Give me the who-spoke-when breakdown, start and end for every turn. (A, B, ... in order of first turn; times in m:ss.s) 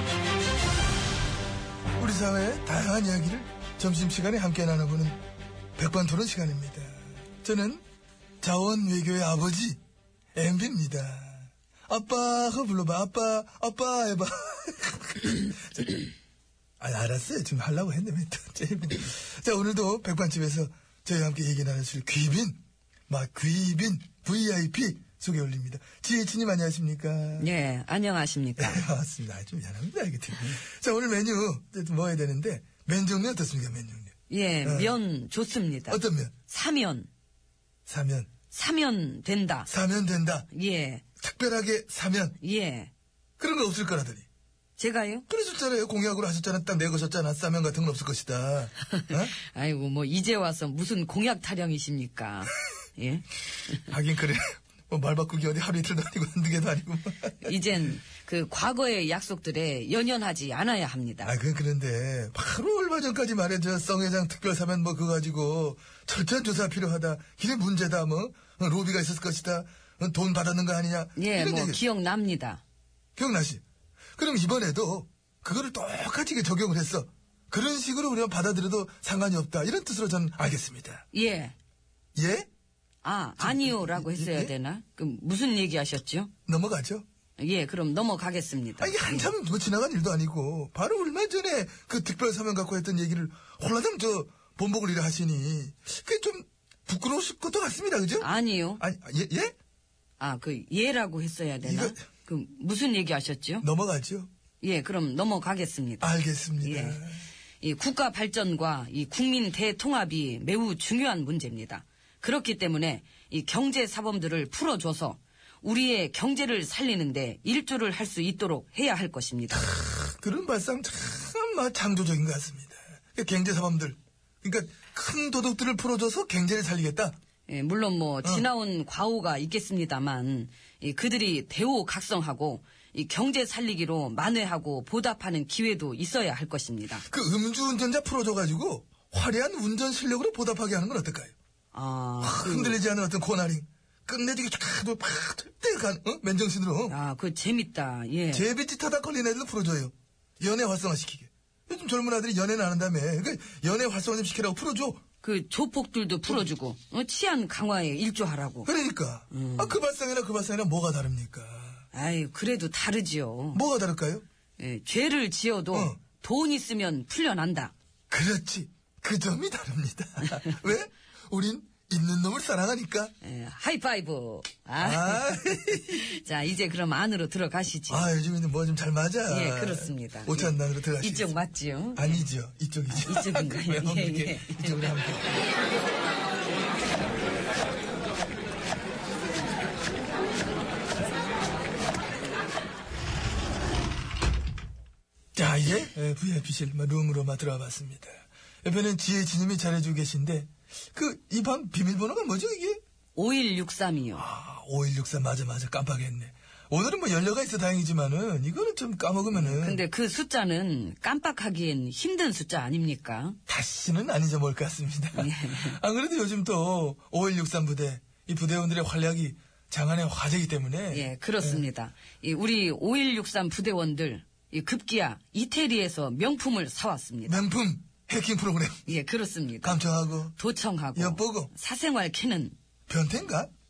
0:02.0-0:05.2 A
0:05.8-0:07.8 A
0:08.4-0:09.8 A
0:10.4-0:16.1 A
0:16.8-0:27.5 A
0:27.4-0:28.8 B
0:28.6-0:35.0 A
0:34.3-0:37.1 B
0:35.9-0:36.3 A
0:37.9-0:38.3 A
0:38.5-0:39.7 B
0:39.7-0:40.5 A
0:40.5-0:41.0 B
0:41.2-0:42.4 A
0:42.4-0:42.9 B
0:43.4-0:44.2 A
0:44.8-0:45.2 B
0:45.3-0:49.4 A
0:48.9-0:53.8 B
0:53.9-0:57.5 A
0:57.4-1:01.3 B
1:01.2-1:11.8 A
1:11.2-1:12.6 B
1:13.2-1:13.6 A
1:14.2-1:21.0 A
1:21.1-1:21.5 B
1:22.2-1:22.5 A
1:23.0-1:26.3 B
1:23.4-1:24.5 A
1:26.5-1:27.0 A
1:27.4-1:29.3 B
1:28.8-1:39.5 A
1:38.2-1:38.8 B
1:40.2-1:43.6 B
1:41.6-1:42.0 A
1:43.6-1:44.3 A
1:44.6-1:47.0 B
1:46.0-1:47.2 A
1:47.6-1:59.7 B
1:59.6-2:07.2 A
2:07.5-2:17.0 B
2:17.1-2:21.3 A
2:21.7-2:22.8 B
2:22.2-2:27.0 A
2:26.9-2:28.5 B
2:28.3-2:35.0 A
2:35.2-2:38.7 B
2:38.6-2:41.8 A
2:39.3-2:39.8 B
2:41.9-2:43.6 B
2:43.5-2:44.2 A
2:44.6-2:47.7 B
2:45.7-2:46.0 A
2:48.1-2:53.1 A
2:53.2-2:58.1 B
2:54.8-2:56.1 A
2:57.9-3:01.3 A
2:59.3-3:02.2 B
3:01.9-3:05.3 A
3:02.9-3:05.2 B
3:15.3-3:22.8 A
3:23.1-3:24.2 B
3:24.1-3:29.8 A
3:29.3-3:33.4 B
3:33.5-3:41.6 A
3:35.1-3:35.8 B
3:40.9-3:47.4 B
3:47.3-3:48.8 A
3:48.8-3:49.8 B
3:49.6-3:50.4 A
3:50.4-3:52.5 B
3:50.9-3:51.5 A
3:52.9-3:53.5 A